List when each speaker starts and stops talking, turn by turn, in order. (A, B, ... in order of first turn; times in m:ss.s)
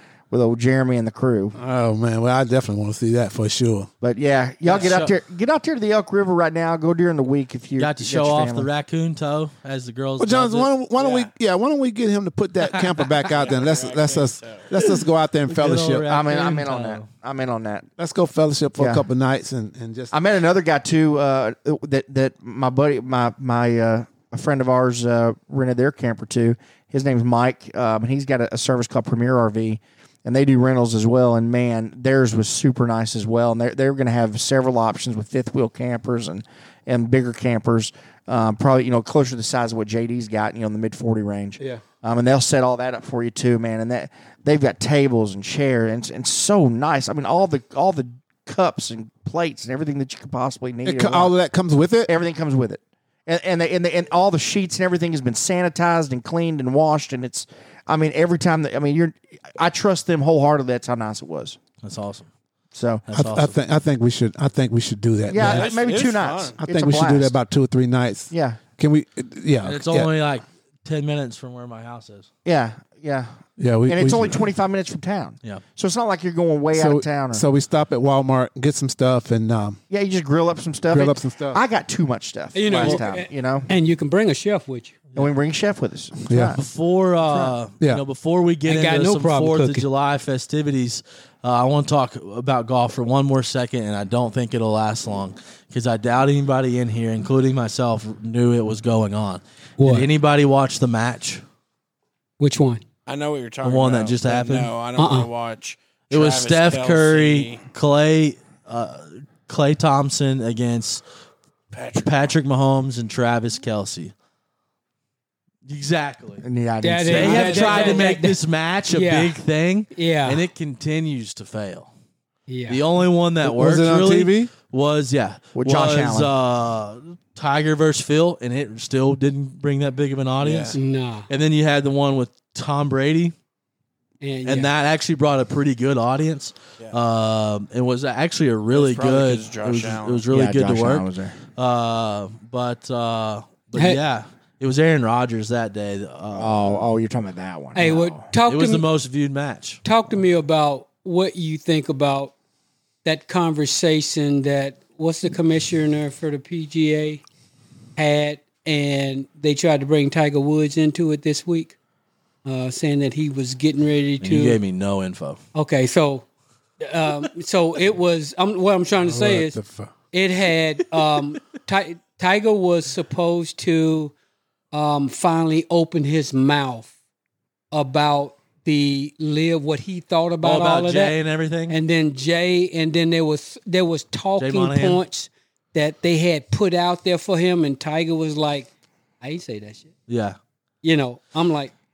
0:00.3-0:01.6 A
0:01.6-0:03.9 B
0:04.0-0:08.7 A
0:04.6-0:05.1 C
0:07.8-0:10.7 C
0:10.2-0:16.1 B
0:11.0-0:11.3 D
0:13.3-0:14.6 D
0:15.5-0:17.0 C
0:16.0-0:17.9 A
0:18.0-0:20.1 B
0:18.8-0:19.0 A
0:20.1-0:51.3 A
0:50.8-0:52.1 B
0:52.0-1:01.6 A
1:01.8-1:02.3 C
1:02.7-1:03.0 A
1:03.0-1:03.5 C
1:03.1-1:05.7 B
1:05.3-1:07.4 A
1:05.4-1:06.6 D
1:06.6-1:10.1 B
1:08.3-1:08.6 A
1:09.6-1:12.3 C
1:12.4-1:13.3 A
1:13.6-1:14.4 B
1:13.9-1:17.4 A
1:16.7-1:19.8 B
1:19.9-1:23.7 A
1:20.9-1:21.6 B
1:22.5-1:25.0 E
1:25.1-1:26.6 A
1:26.3-1:26.6 B
1:26.6-1:41.4 C
1:28.6-1:29.9 E
1:39.8-1:40.1 E
1:42.4-1:42.8 E
1:43.0-1:47.6 D
1:43.6-1:44.7 C
1:45.0-1:45.3 E
1:46.1-1:51.0 C
1:51.7-1:52.1 D
1:52.0-1:54.1 C
1:55.7-1:56.4 C
1:56.4-1:58.0 A
1:56.8-1:59.4 E
1:57.0-2:01.9 C
1:59.9-2:00.4 E
2:02.5-2:02.8 E
2:02.7-2:10.8 C
2:03.4-2:04.5 B
2:05.6-2:06.3 A
2:10.4-2:10.8 D
2:10.7-2:11.3 E
2:11.3-2:13.3 C
2:14.2-2:14.7 E
2:14.4-2:26.8 C
2:18.7-2:20.2 D
2:20.3-2:21.4 A
2:23.7-2:24.0 E
2:26.4-2:28.3 A
2:27.7-2:28.9 E
2:28.4-2:29.8 C
2:29.8-2:32.3 E
2:33.0-2:37.2 E
2:38.0-2:41.8 E
2:42.4-2:44.6 E
2:44.2-2:45.4 C
2:45.5-2:46.3 E
2:46.8-2:49.6 E
2:49.0-2:49.9 B
2:50.1-2:54.1 E
2:54.7-2:56.9 E
2:57.7-3:01.1 E
3:00.4-3:01.8 C
3:01.7-3:08.7 E
3:04.4-3:05.0 C
3:09.2-3:09.9 E
3:10.1-3:10.4 C
3:10.8-3:11.7 E